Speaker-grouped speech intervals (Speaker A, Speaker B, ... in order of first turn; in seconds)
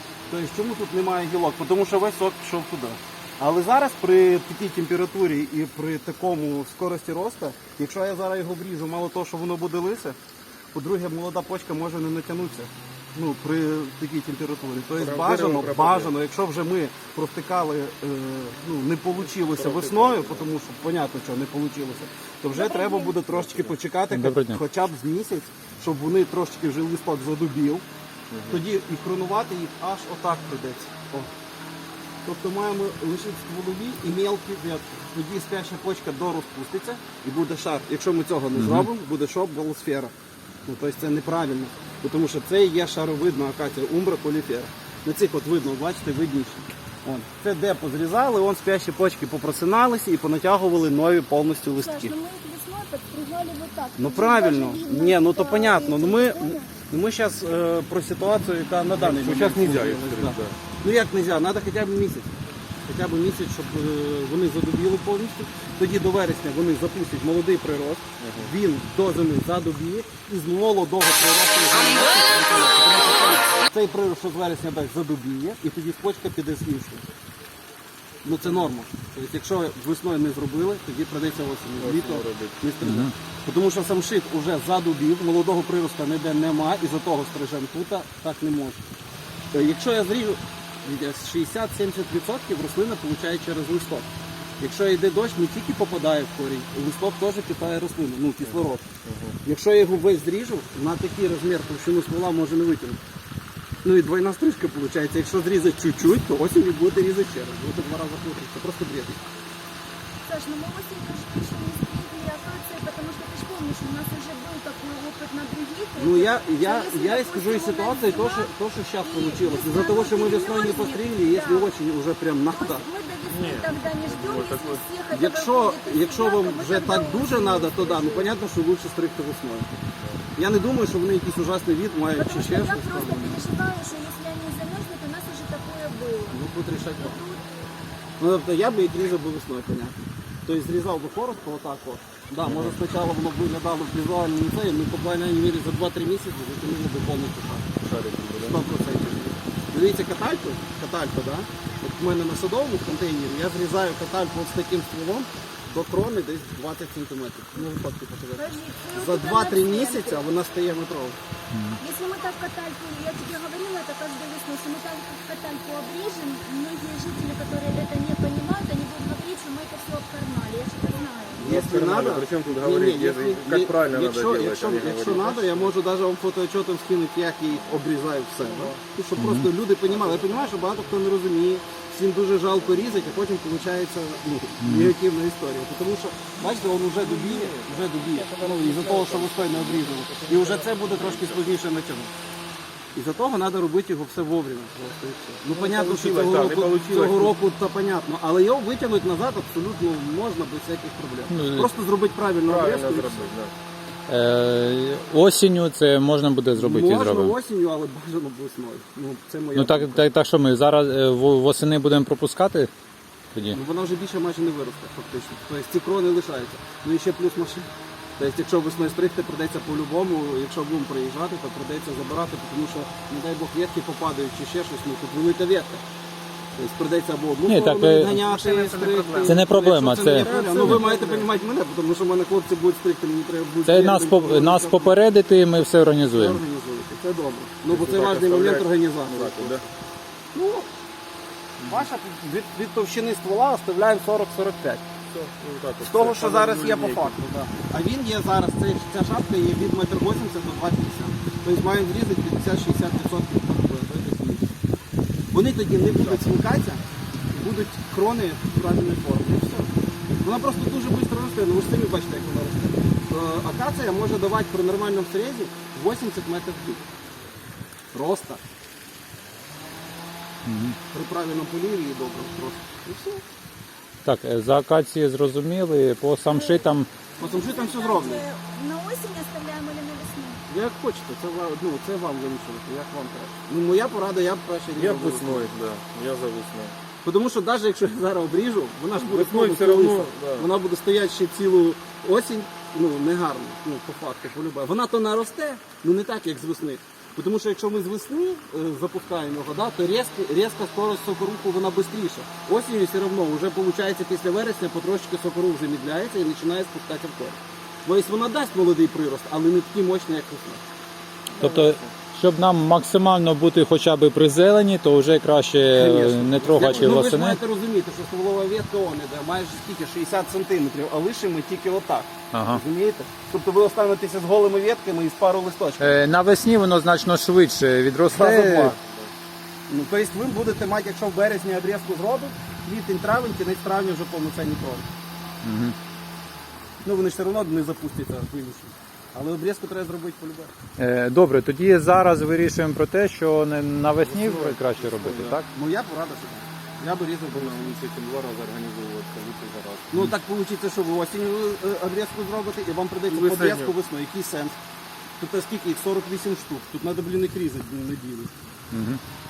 Speaker A: 0.3-10.2, 10.7-27.8, 28.5-31.3, 32.2-40.1, 40.6-52.1, 54.0-62.3, 62.9-77.0, 78.2-88.8, 89.5-94.1, 94.6-98.9, 99.4-103.0, 103.8-109.2, 116.0-122.8, 125.1-129.7, 130.3-133.4, 136.3-137.2, 138.2-147.7, 148.4-161.2, 171.4-192.1, 192.9-203.2, 206.5-210.1, 213.5-225.8, 226.6-234.9, 236.1-239.6, 240.3-240.7, 241.7-244.8, 245.8-254.5, 255.3-259.7, 260.2-266.8, 267.9-268.4, 270.9-273.2, 277.2-278.2, 280.5-285.5, 287.0-310.6, 315.7-326.0, 328.1-328.8, 329.7-334.9, 336.8-340.5, 345.0-347.8, 349.9-354.6, 355.2-358.3
Speaker B: 14.9-16.1, 19.3-20.5, 23.3-23.7, 28.3-28.6, 58.9-60.6, 68.2-68.5, 81.8-82.5, 98.5-99.3, 123.3-124.8, 142.5-142.7, 147.8-148.6, 171.3-175.8, 177.5-177.8, 178.4-178.8, 179.8-180.6, 182.5-183.3, 186.4-191.6, 195.5-197.4, 202.4-203.5, 228.1-229.4, 230.1-231.3, 237.7-239.6, 241.6-241.8, 245.1-247.2, 255.8-256.3, 284.7-286.8, 288.9-290.5, 311.3-311.9, 344.1-345.4, 347.3-350.0, 353.1-353.8
Speaker C: 22.5-23.2, 51.7-56.7, 110.2-121.8, 122.5-128.3, 132.1-136.4, 137.0-137.4, 158.3-160.2, 161.8-171.5, 276.3-276.7, 277.2-280.4
Speaker D: 24.1-24.6, 38.5-38.9, 82.8-83.1, 161.5-161.8, 179.2-179.5, 184.6-184.9, 201.3-201.7, 204.1-207.3, 209.5-212.7, 227.4-228.2, 229.2-230.8, 233.6-236.4, 270.4-270.8, 274.0-276.9, 311.4-317.4, 322.3-322.6, 325.8-328.8, 335.4-335.8, 340.8-345.5, 358.7-359.0